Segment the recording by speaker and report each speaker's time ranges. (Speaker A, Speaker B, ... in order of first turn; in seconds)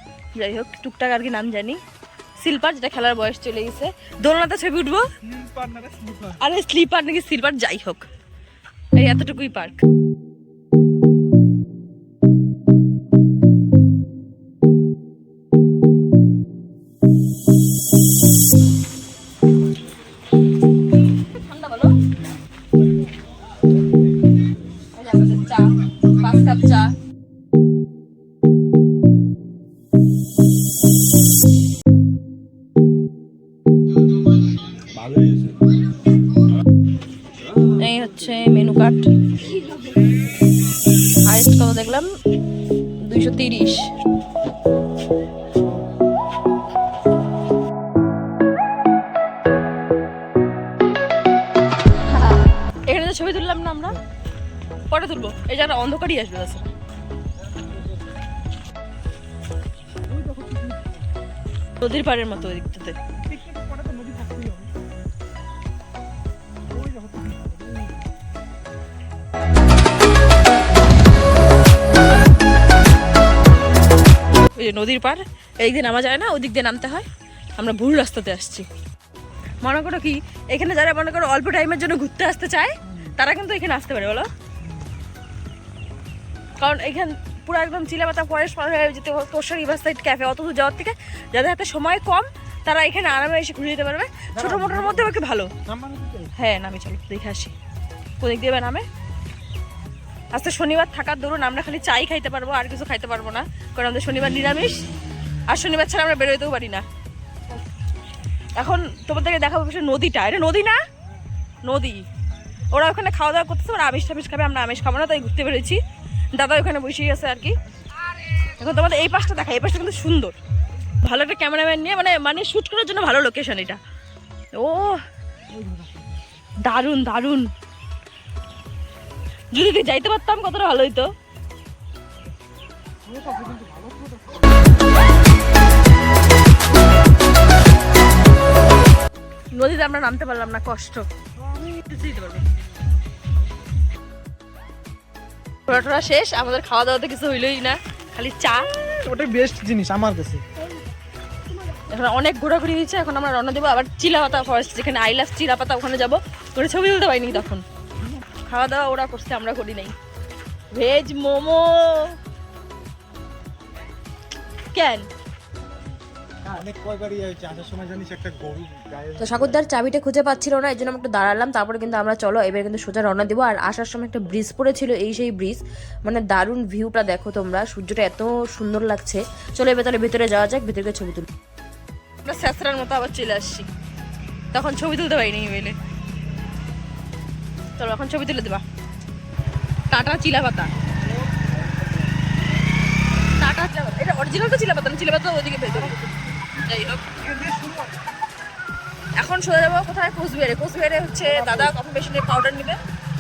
Speaker A: 0.3-1.8, 2.4-5.1, 6.4-8.1, 8.9-9.8, 21.2-22.0, 24.9-27.0, 37.7-39.1, 41.2-42.1, 43.0-43.9, 52.1-54.0, 54.9-56.7, 61.8-63.0, 74.5-77.1, 77.6-78.7, 79.6-84.3, 86.6-95.5, 96.4-97.5, 98.2-98.8, 100.3-104.9, 105.5-106.8, 108.6-110.8, 111.6-112.0, 112.7-115.8, 116.3-117.6, 118.4-120.4, 121.0-123.8, 124.5-125.0, 126.6-127.5, 129.5-131.1, 139.5-142.5, 145.7-148.9, 151.8-157.6, 158.5-159.9, 160.7-162.2, 164.7-165.1, 182.2-183.7, 184.5-185.8, 187.7-188.6, 189.9-190.7, 193.2-197.1, 199.2-202.8
Speaker B: 5.2-6.4, 60.1-60.9, 63.2-64.7, 66.7-68.0, 94.3-95.1, 95.7-96.3, 125.5-125.9, 133.1-134.3, 149.0-150.4, 166.4-169.6, 197.2-197.9
Speaker C: 169.2-181.3